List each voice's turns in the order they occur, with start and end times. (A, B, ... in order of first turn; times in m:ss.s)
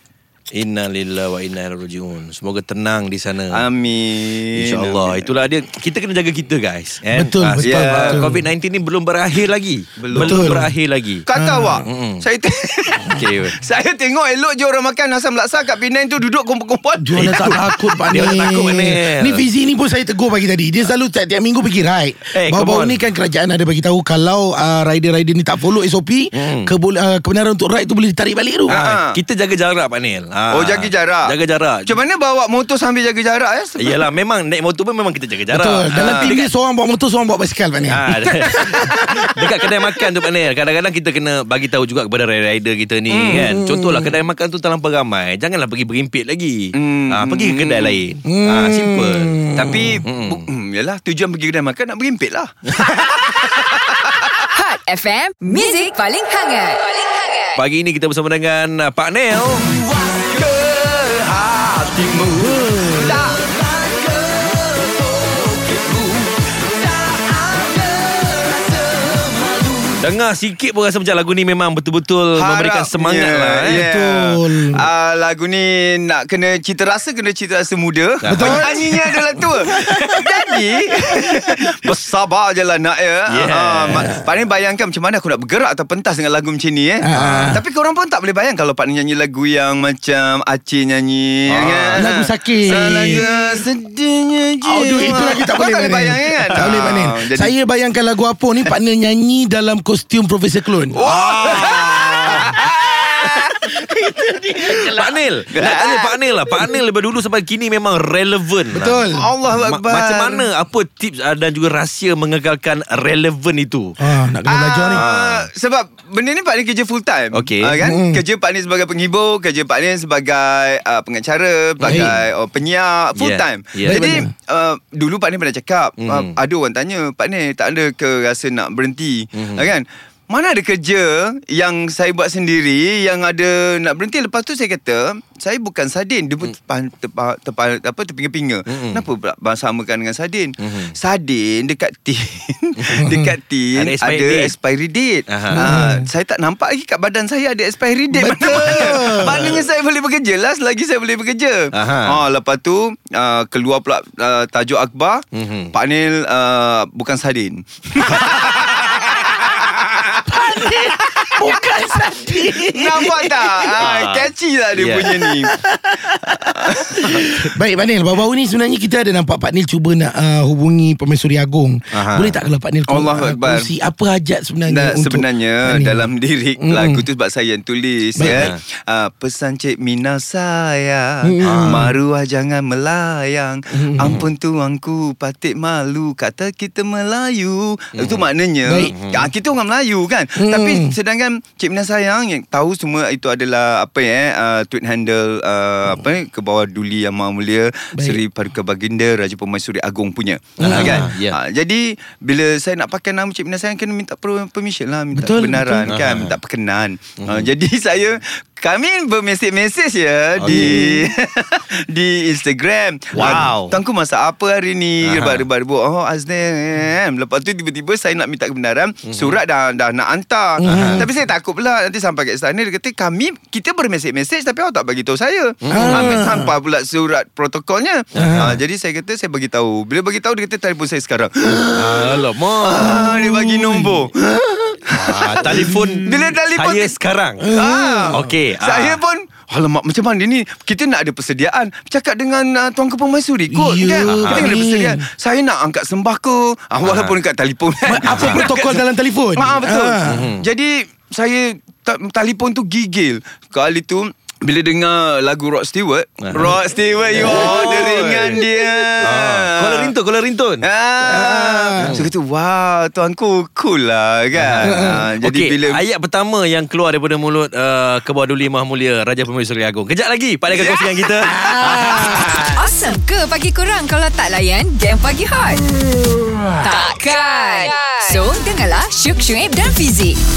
0:00.5-0:03.6 A
0:03.5-0:05.3 B
0:04.5-0:11.2 A
0:07.1-0:08.4 C
0:07.6-0:08.3 B
0:10.0-0:10.7 B
0:10.2-0:10.7 C
0:11.2-0:17.6 B
0:11.3-0:11.9 C
0:11.8-0:12.2 A
0:13.1-0:13.6 A
0:17.0-0:28.8 C
0:17.2-0:19.4 A
0:22.3-0:23.0 A
0:26.3-0:26.7 A
0:28.7-0:29.2 B
0:28.7-0:31.9 A
0:30.5-0:31.3 B
0:31.8-0:34.1 B
0:33.8-0:36.5 A
0:35.5-0:39.3 C
0:35.9-0:36.3 B
0:37.9-0:50.4 A
0:43.1-0:43.5 B
0:43.3-0:44.1 C
0:46.7-0:48.0 B
0:48.2-0:50.0 C
0:49.5-0:54.5 B
0:54.5-0:57.6 D
0:57.6-0:59.8 A
0:59.7-1:10.0 B
1:02.3-1:03.4 C
1:10.0-1:13.8 A
1:12.4-1:37.5 B
1:13.6-1:14.9 C
1:18.2-1:18.9 A
1:18.3-1:21.7 C
1:23.3-1:24.2 A
1:23.9-1:24.2 C
1:27.0-1:27.6 C
1:27.1-1:27.5 A
1:31.5-1:33.3 A
1:32.0-1:33.3 C
1:34.6-1:42.6 C
1:40.9-1:46.7 B
1:41.0-1:42.7 A
1:43.2-1:43.9 A
1:44.6-1:54.0 A
1:48.7-1:49.3 C
1:49.1-1:50.5 B
1:54.0-1:55.0 C
1:54.4-2:45.5 B
1:54.9-1:55.5 A
1:57.3-1:57.8 A
1:57.8-1:58.2 C
2:01.8-2:02.2 A
2:01.9-2:02.1 C
2:03.2-2:04.2 A
2:03.8-2:04.3 C
2:06.0-2:06.3 A
2:09.4-2:09.6 A
2:18.7-2:19.0 A
2:20.6-2:20.9 A
2:22.8-2:23.1 A
2:23.0-2:23.3 C
2:23.7-2:24.5 A
2:25.3-2:25.9 A
2:25.5-2:26.1 C
2:28.1-2:29.6 C
2:28.5-2:29.0 A
2:31.7-2:32.2 A
2:35.3-2:35.7 A
2:38.1-2:39.8 A
2:40.2-2:43.9 C
2:43.8-2:45.2 A
2:45.1-2:56.0 C
2:46.2-2:47.4 B
2:51.9-2:52.4 A
2:52.9-2:53.7 B
2:54.7-3:57.0 B
2:56.6-2:57.0 C
2:58.2-2:58.5 C
2:58.2-2:58.6 A
3:01.2-3:02.0 C
3:01.4-3:01.9 A
3:03.7-3:04.2 C
3:08.0-3:08.2 A
3:08.6-3:08.9 C
3:08.9-3:09.3 A
3:10.4-3:10.9 C
3:17.9-3:18.2 C
3:20.6-3:21.4 A
3:20.6-3:21.1 C
3:25.1-3:25.9 C
3:25.8-3:26.3 A
3:27.2-3:27.5 A
3:30.4-3:30.9 A
3:30.5-3:31.0 C
3:33.1-3:33.8 A
3:33.2-3:33.5 C
3:35.0-3:35.4 A
3:39.1-3:39.4 A
3:40.6-3:41.1 C
3:40.7-3:41.1 A
3:45.6-3:46.2 A
3:45.7-3:46.5 C
3:48.1-3:48.6 A
3:48.2-3:48.6 C
3:51.7-3:53.1 A
3:52.7-3:54.1 C
3:54.9-3:57.5 A
3:55.4-3:56.0 C
3:57.4-3:58.3 C
3:57.5-4:08.8 B
3:58.1-3:59.0 A
4:03.5-4:05.1 C
4:04.0-4:04.6 A
4:06.8-4:07.2 A
4:07.8-4:10.3 C
4:08.0-4:08.5 A
4:09.3-4:19.9 B
4:10.0-4:10.4 A
4:16.2-4:16.6 A
4:17.1-4:20.6 A
4:17.2-4:17.6 C
4:20.6-4:25.8 B
4:21.0-4:22.0 C
4:21.8-4:22.1 A
4:24.3-4:32.5 A
4:24.6-4:25.0 C
4:30.5-4:30.9 B
4:31.2-4:32.4 C
4:32.0-4:35.6 D
4:36.6-4:40.2 D